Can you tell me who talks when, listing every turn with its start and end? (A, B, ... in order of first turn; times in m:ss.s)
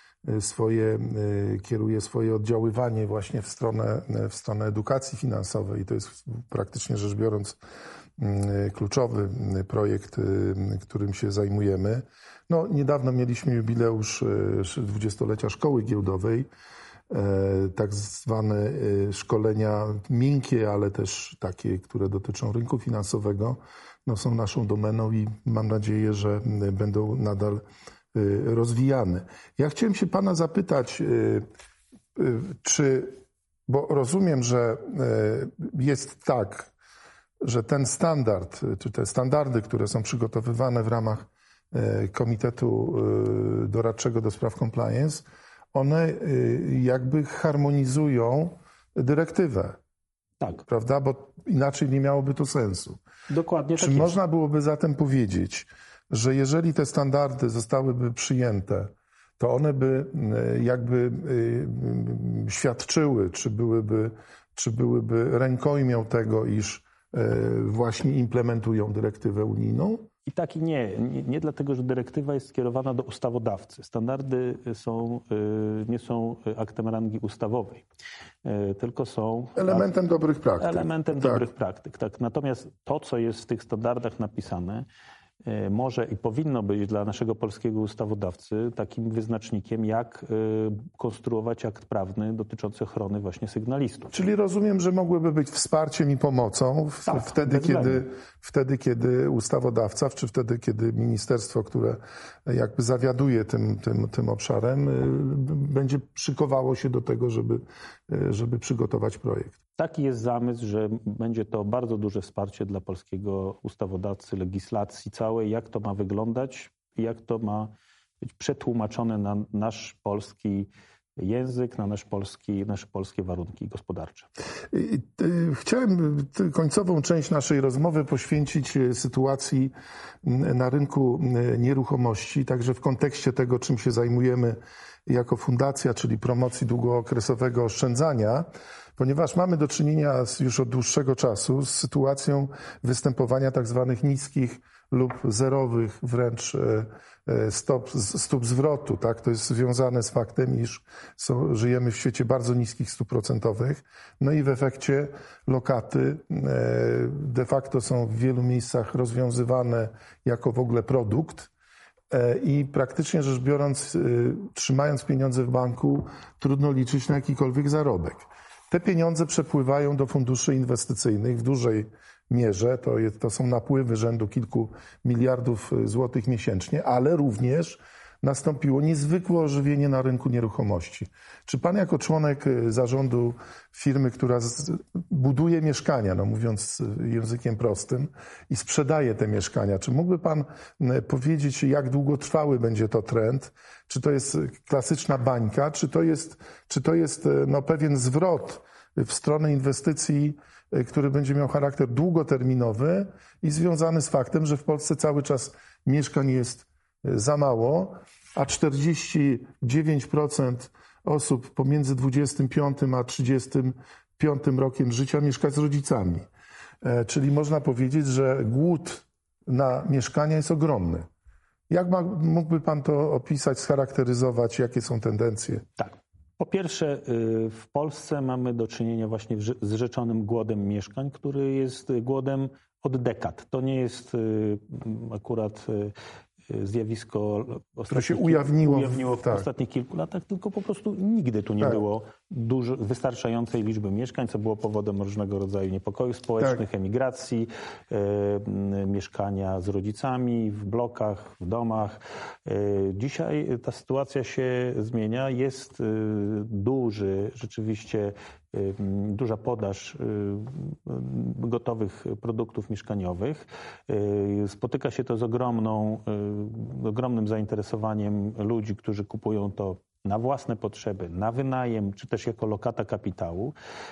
0:00.2-0:07.6 A
0:08.2-0:16.5 A
0:17.1-0:27.6 A
0:28.1-0:31.4 A
0:32.2-0:33.1 A
0:33.7-0:36.7 A
0:37.4-0:49.8 A
0:50.7-0:53.0 A
0:53.3-0:54.2 B
0:53.8-1:10.1 A
1:10.3-1:17.8 B
1:18.4-1:19.9 B
1:19.6-1:21.5 A
1:20.6-1:24.8 B
1:25.4-1:34.1 B
1:34.1-1:49.6 A
1:37.0-1:38.1 B
1:49.8-1:57.7 B
1:58.2-2:04.3 B
2:04.7-2:09.7 A
2:10.2-2:41.5 A
2:42.1-3:36.2 A
3:36.8-3:41.1 A
3:41.7-3:45.6 A
3:45.8-3:55.9 B
3:56.5-4:33.5 B
3:57.9-3:59.5 A